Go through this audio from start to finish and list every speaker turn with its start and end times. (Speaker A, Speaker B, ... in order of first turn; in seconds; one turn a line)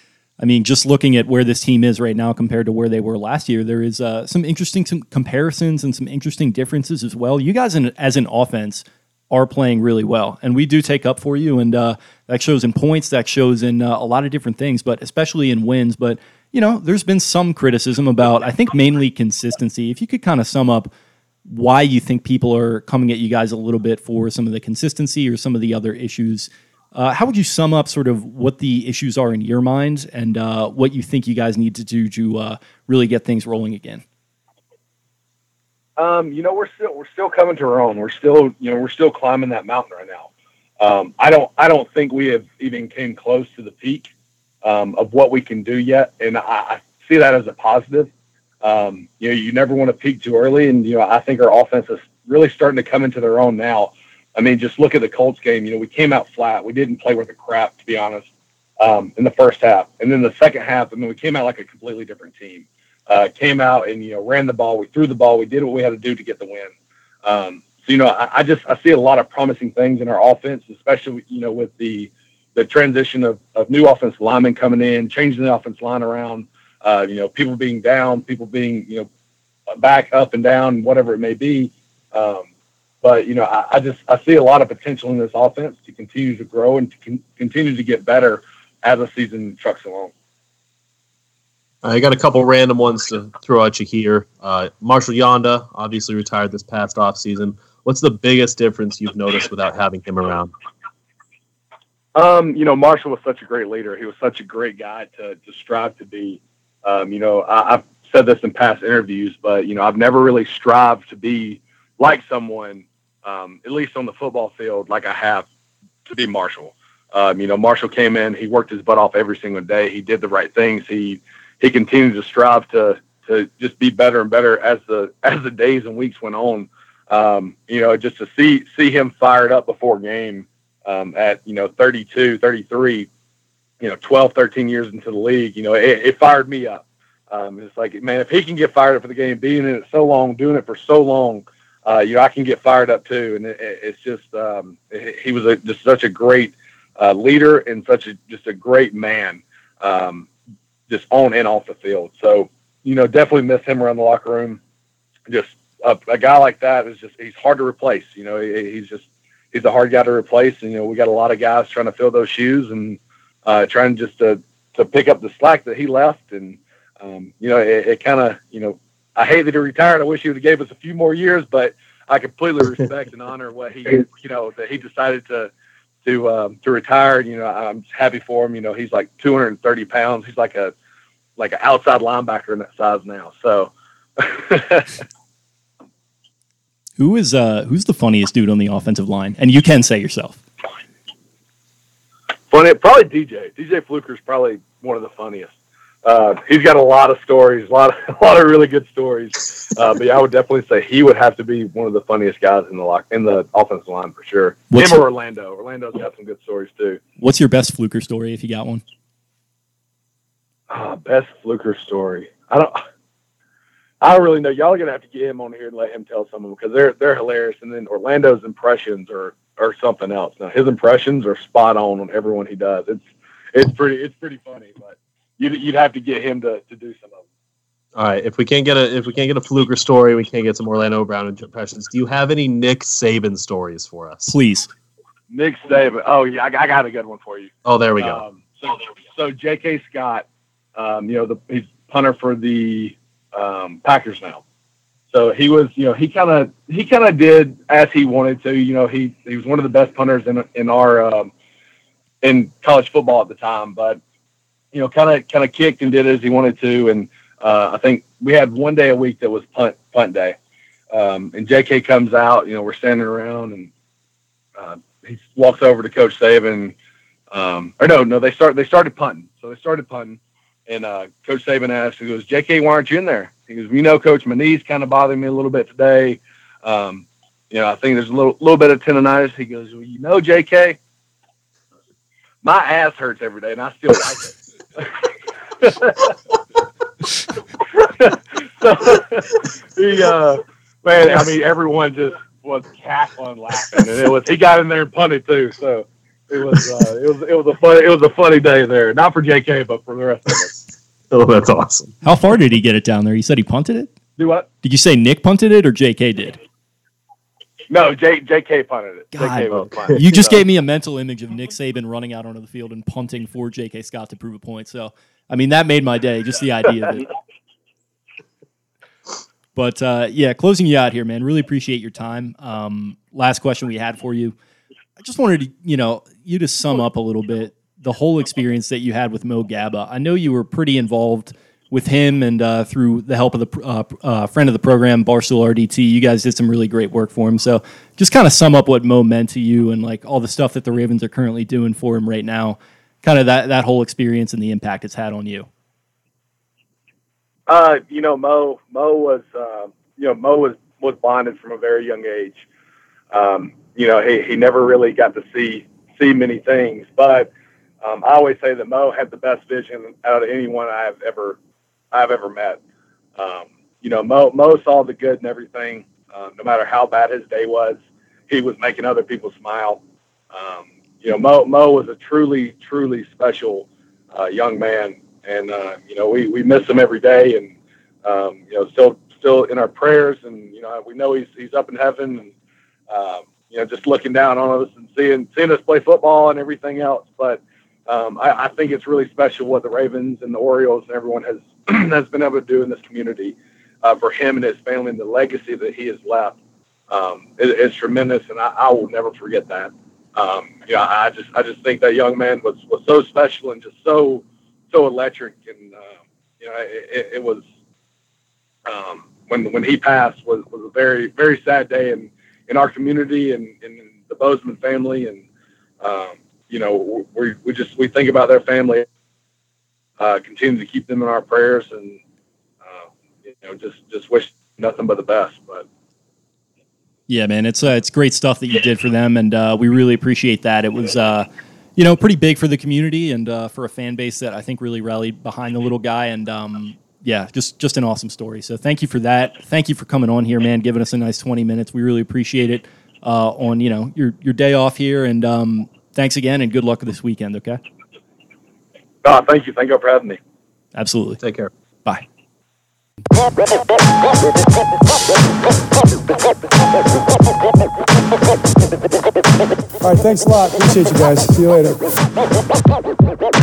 Speaker A: 0.4-20.9
Speaker A: 21.4-34.0
Speaker B: 36.0-44.1
Speaker B: 44.6-48.1
Speaker B: 48.6-58.3
Speaker B: 58.8-66.7
Speaker B: 67.2-79.1
Speaker B: 79.7-82.5
Speaker B: 83.0-90.1
Speaker C: 91.8-100.5
Speaker B: 102.1-115.5
Speaker B: 116.0-133.1
Speaker B: 133.8-150.3
Speaker B: 150.9-154.6
Speaker B: 155.3-175.5
Speaker B: 176.0-180.7
Speaker B: 181.4-185.0
Speaker A: 187.0-190.4
Speaker B: 192.5-207.0
Speaker A: 204.7-205.1
Speaker A: 207.2-208.8
Speaker B: 210.7-212.8
Speaker B: 214.0-227.2
Speaker C: 227.9-234.4
Speaker A: 234.3-234.7
Speaker B: 235.3-244.4
Speaker C: 237.6-238.2
Speaker B: 245.1-251.3
Speaker B: 252.2-254.0
Speaker B: 254.7-260.4
Speaker B: 260.9-263.7
Speaker B: 264.6-266.7
Speaker B: 267.3-280.8
Speaker B: 282.4-285.1
Speaker B: 285.6-286.1
Speaker B: 287.8-300.5
Speaker C: 301.1-301.9
Speaker A: 302.0-303.9
Speaker B: 304.2-304.5
Speaker A: 304.6-306.4
Speaker B: 307.7-310.4
Speaker A: 309.1-317.1
Speaker A: 319.5-324.3
Speaker A: 325.0-345.5
Speaker B: 347.5-352.4
Speaker B: 353.1-357.3
Speaker B: 357.8-361.4
Speaker B: 361.9-362.6
Speaker B: 363.1-382.3
Speaker B: 382.9-396.4
Speaker B: 396.9-407.4
Speaker B: 408.6-415.2
Speaker B: 415.8-418.9
Speaker B: 420.0-422.0
Speaker B: 422.6-425.6
Speaker A: 427.1-447.6
Speaker B: 449.0-450.2
Speaker A: 450.7-451.2
Speaker C: 451.2-451.5
Speaker D: 459.8-461.8